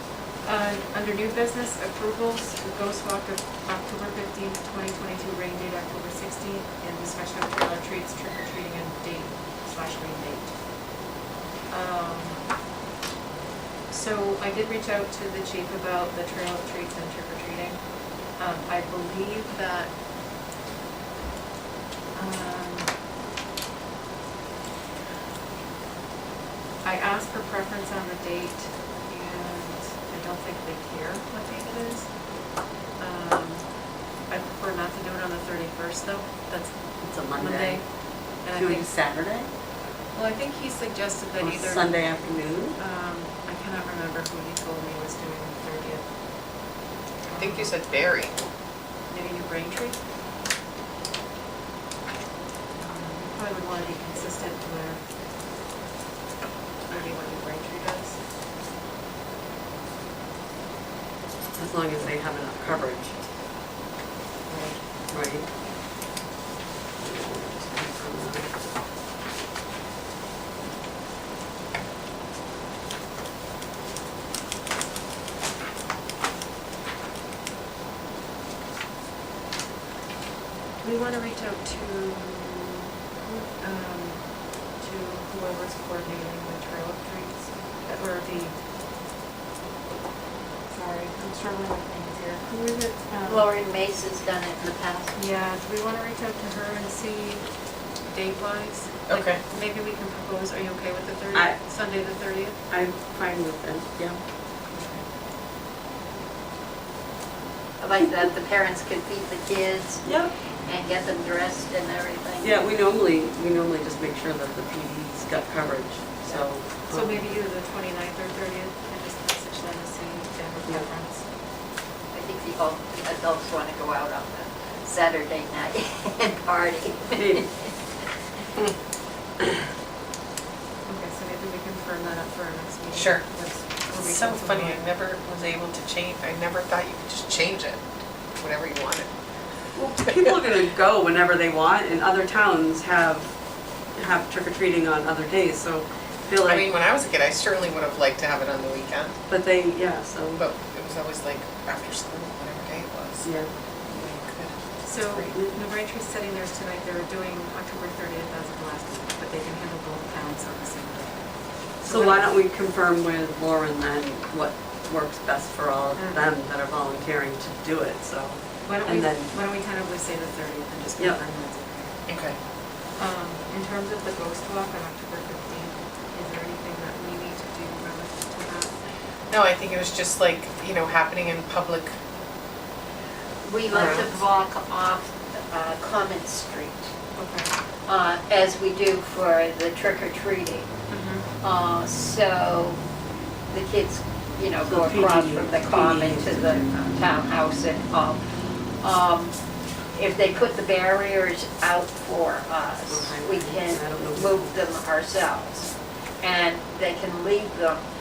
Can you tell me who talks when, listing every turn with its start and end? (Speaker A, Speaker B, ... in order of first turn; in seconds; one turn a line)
Speaker A: 0.4-10.6
Speaker A: 11.7-12.5
Speaker A: 13.9-19.9
Speaker A: 22.1-22.9
Speaker A: 26.8-32.1
Speaker A: 33.0-33.7
Speaker A: 34.3-36.8
Speaker B: 37.0-37.8
Speaker A: 37.3-37.9
Speaker A: 38.4-38.9
Speaker B: 38.5-39.5
Speaker A: 40.1-42.2
Speaker B: 41.4-42.8
Speaker A: 42.7-46.0
Speaker A: 47.3-47.8
Speaker C: 47.4-48.4
Speaker A: 49.1-50.0
Speaker A: 52.8-55.0
Speaker A: 56.9-58.2
Speaker B: 61.5-63.1
Speaker A: 64.5-64.8
Speaker B: 65.1-65.5
Speaker B: 67.0-68.5
Speaker A: 80.8-88.5
Speaker A: 90.7-93.5
Speaker D: 93.2-95.2
Speaker A: 95.2-97.5
Speaker A: 98.0-102.6
Speaker C: 99.1-99.4
Speaker B: 101.3-101.6
Speaker B: 102.7-104.2
Speaker D: 107.8-110.1
Speaker B: 110.0-110.3
Speaker D: 110.6-112.6
Speaker B: 112.4-117.3
Speaker A: 116.9-121.2
Speaker D: 122.1-127.7
Speaker B: 127.2-127.4
Speaker A: 130.8-134.8
Speaker C: 132.9-133.2
Speaker C: 133.9-137.8
Speaker C: 138.4-139.1
Speaker B: 139.7-143.3
Speaker B: 143.9-146.7
Speaker C: 146.4-149.2
Speaker B: 149.3-150.4
Speaker C: 150.3-153.3
Speaker B: 153.2-153.5
Speaker C: 153.9-155.3
Speaker A: 154.8-161.2
Speaker B: 161.8-169.3
Speaker A: 161.8-162.3
Speaker A: 165.9-166.3
Speaker A: 168.6-171.9
Speaker C: 172.1-172.4
Speaker A: 173.0-178.8
Speaker C: 179.3-181.9
Speaker D: 183.4-186.9
Speaker A: 183.7-184.2
Speaker B: 183.8-184.0
Speaker A: 187.2-187.5
Speaker D: 187.9-190.7
Speaker A: 190.9-191.2
Speaker D: 191.4-192.8
Speaker D: 193.5-198.2
Speaker B: 194.6-196.9
Speaker D: 198.8-199.4
Speaker D: 199.9-207.8
Speaker B: 202.9-204.6